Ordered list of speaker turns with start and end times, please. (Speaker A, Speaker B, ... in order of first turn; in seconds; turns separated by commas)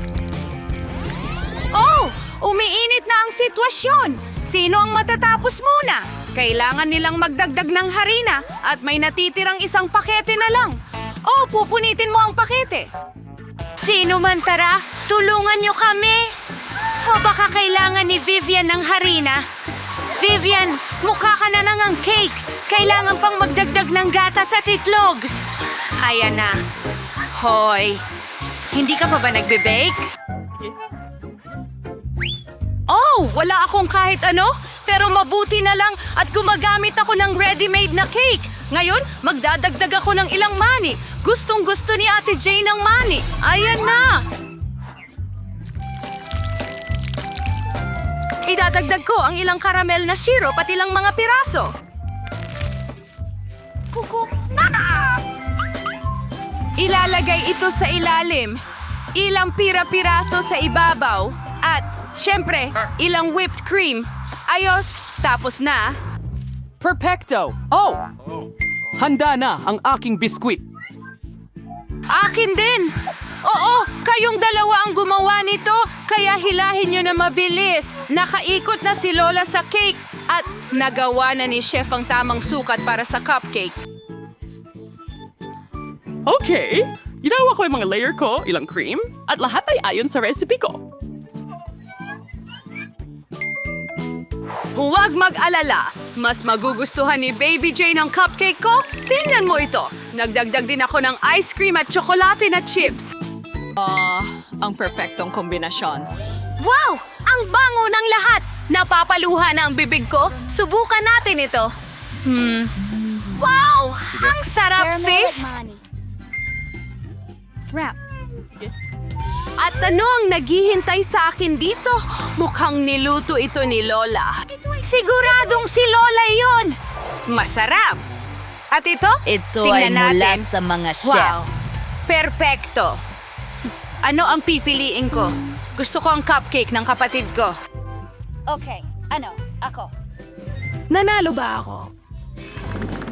Speaker A: 1.7-12.9, Speaker A: 13.8-16.3, Speaker A: 16.9-19.4, Speaker A: 20.1-25.3, Speaker A: 25.9-26.6, Speaker A: 27.3-28.0, Speaker A: 28.7-30.0, Speaker A: 32.9-44.2, Speaker A: 48.4-51.7, Speaker A: 53.9-55.1, Speaker A: 56.8-58.6, Speaker A: 59.1-66.0, Speaker B: 66.8-68.0, Speaker B: 69.0-70.6, Speaker A: 72.1-83.8, Speaker B: 86.2-90.8, Speaker A: 94.7-103.1, Speaker C: 103.8-106.0, Speaker A: 106.6-111.7, Speaker A: 112.2-115.5, Speaker D: 114.8-115.8, Speaker A: 119.6-126.8, Speaker A: 127.3-128.0, Speaker A: 128.7-130.5, Speaker D: 129.2-131.4, Speaker A: 131.0-131.5, Speaker A: 132.1-133.0, Speaker A: 134.0-137.5, Speaker A: 138.5-139.9, Speaker A: 140.9-141.9